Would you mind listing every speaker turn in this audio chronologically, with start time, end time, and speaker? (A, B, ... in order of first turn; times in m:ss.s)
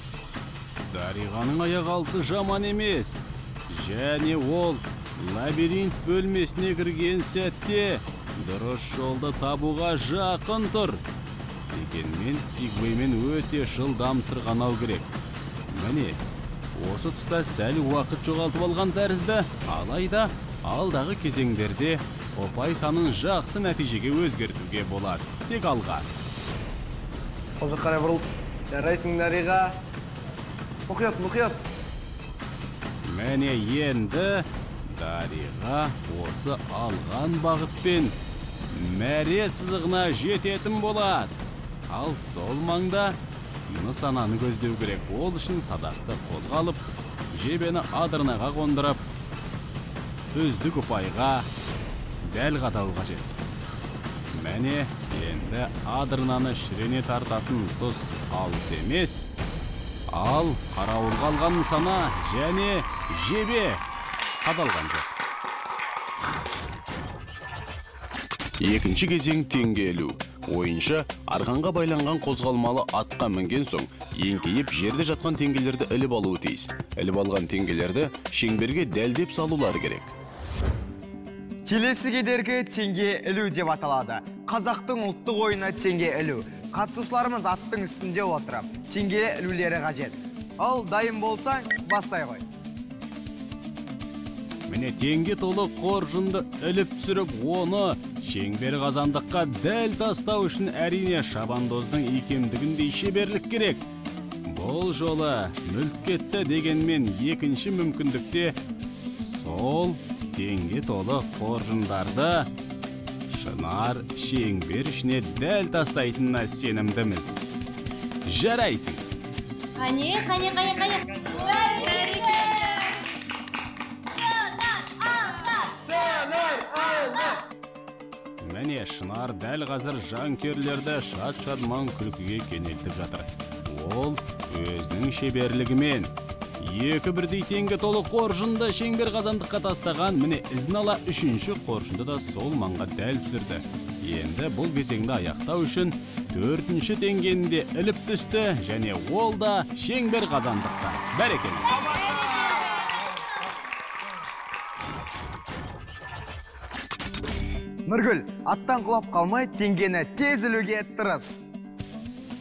0:00.9-0:11.0 A
0:11.7-0:15.1 A
0:15.7-0:16.2 A
0:16.8-0:26.1 A
0:27.5-0:29.8 B
0:30.9-0:31.6 B
0:33.0-0:38.2 A
0:38.7-0:41.4 A
0:41.9-0:43.2 A
0:43.7-0:49.0 A
0:50.3-0:51.5 A
0:52.2-0:53.3 A
0:54.3-0:59.3 A
1:00.1-1:03.8 A
1:04.4-1:05.1 A
1:08.6-1:20.1 A
1:21.6-1:32.4 C
1:34.7-1:43.8 A
1:44.5-1:52.5 A
1:53.3-1:57.4 A
1:58.2-1:59.0 A
1:59.8-2:03.0 D
2:04.1-2:06.0 D
2:05.9-2:07.4 B
2:08.4-2:31.8 A
2:31.7-2:33.1 B
2:31.7-2:33.1 D
2:37.9-2:41.4 C